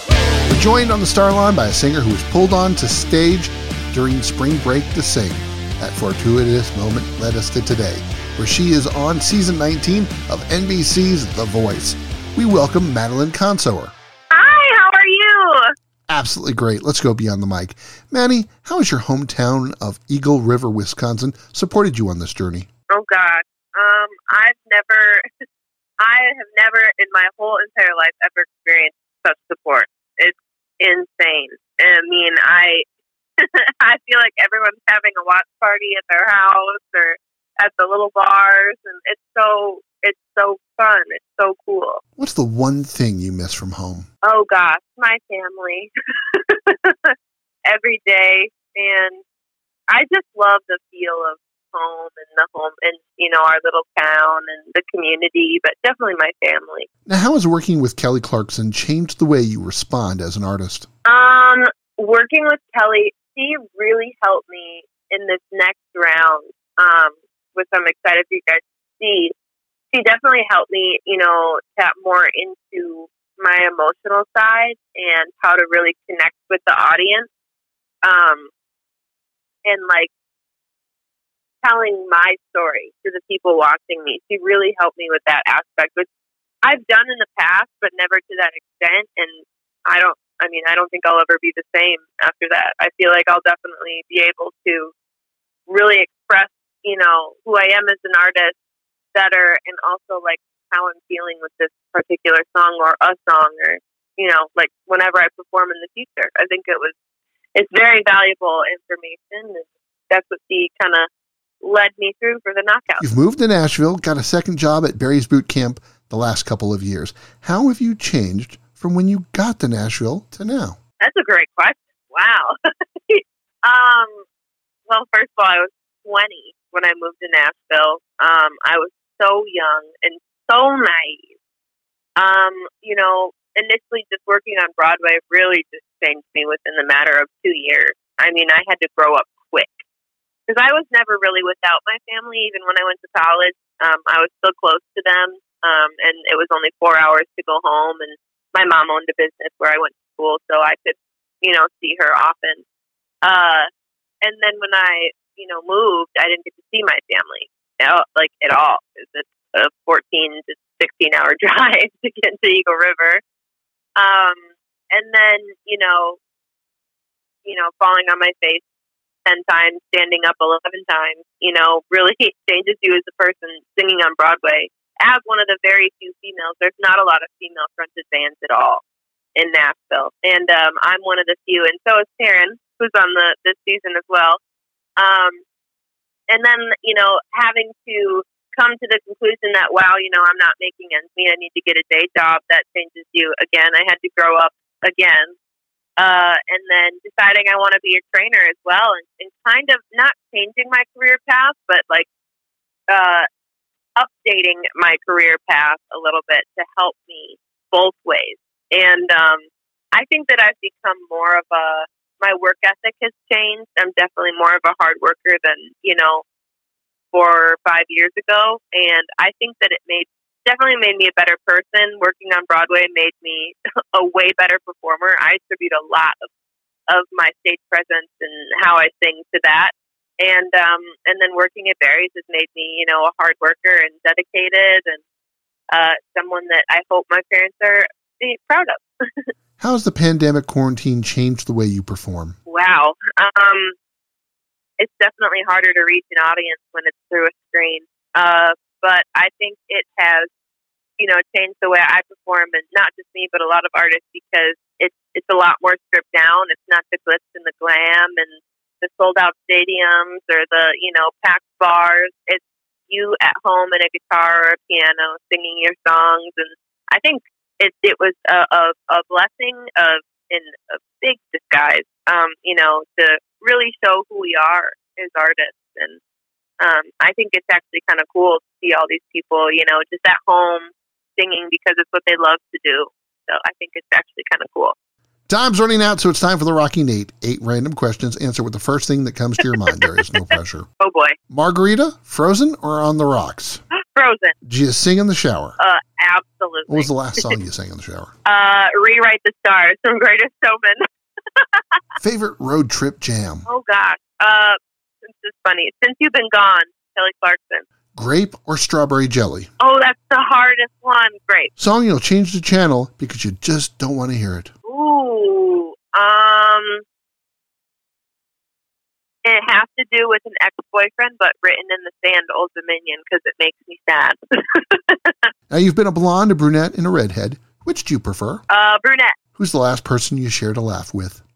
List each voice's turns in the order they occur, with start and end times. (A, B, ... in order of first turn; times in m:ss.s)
0:00.5-0:13.9 A
0:14.3-0:15.7 B
0:16.1-0:22.7 A
0:22.9-0:25.2 B
0:26.0-0:32.8 B
0:33.4-0:42.0 B
0:42.2-0:44.1 A
0:44.2-0:47.1 B
0:47.6-0:49.2 B
0:49.9-0:56.9 B
0:57.0-1:00.9 A
1:01.0-1:09.3 B
1:09.9-1:17.3 B
1:18.0-1:18.5 B
1:19.6-1:20.1 B
1:21.6-1:26.1 B
1:26.6-1:34.9 B
1:35.7-1:38.6 B
1:39.1-1:47.0 B
1:47.5-1:51.1 B
1:51.6-1:53.0 B
1:53.0-2:00.8 A
2:01.0-2:02.6 B
2:03.1-2:04.2 B
2:04.9-2:11.3 B
2:12.2-2:19.8 B
2:20.5-2:32.6 B
2:33.2-2:33.7 B
2:34.2-2:43.2 B
2:44.0-2:46.2 B
2:47.4-2:48.6 B
2:49.2-2:58.8 B
2:59.3-3:04.4 B
3:05.0-3:05.4 B
3:06.3-3:15.4 B
3:16.0-3:22.1 B
3:22.9-3:23.3 B
3:24.0-3:36.2 B
3:37.1-3:46.3 B
3:46.9-3:55.0 B
3:55.7-3:59.3 B
3:59.6-4:02.4 A
4:02.5-4:03.8 B
4:04.8-4:10.3 B
4:11.0-4:36.0 B
4:36.6-4:44.7 B
4:45.3-4:50.7 A
4:50.8-4:51.2 B
4:51.3-4:53.6 A
4:53.9-4:54.3 B
4:54.4-4:55.6 A
4:55.6-4:57.4 B
4:56.7-4:58.1 A
4:58.2-5:00.8 B
5:01.4-5:01.8 B
5:02.0-5:03.5 A
5:03.5-5:07.6 B
5:08.0-5:09.5 A
5:09.6-5:11.5 B
5:11.6-5:14.5 A
5:14.6-5:16.8 B
5:19.2-5:25.3 B
5:25.5-5:28.4 A
5:28.5-5:29.2 B
5:29.3-5:31.2 A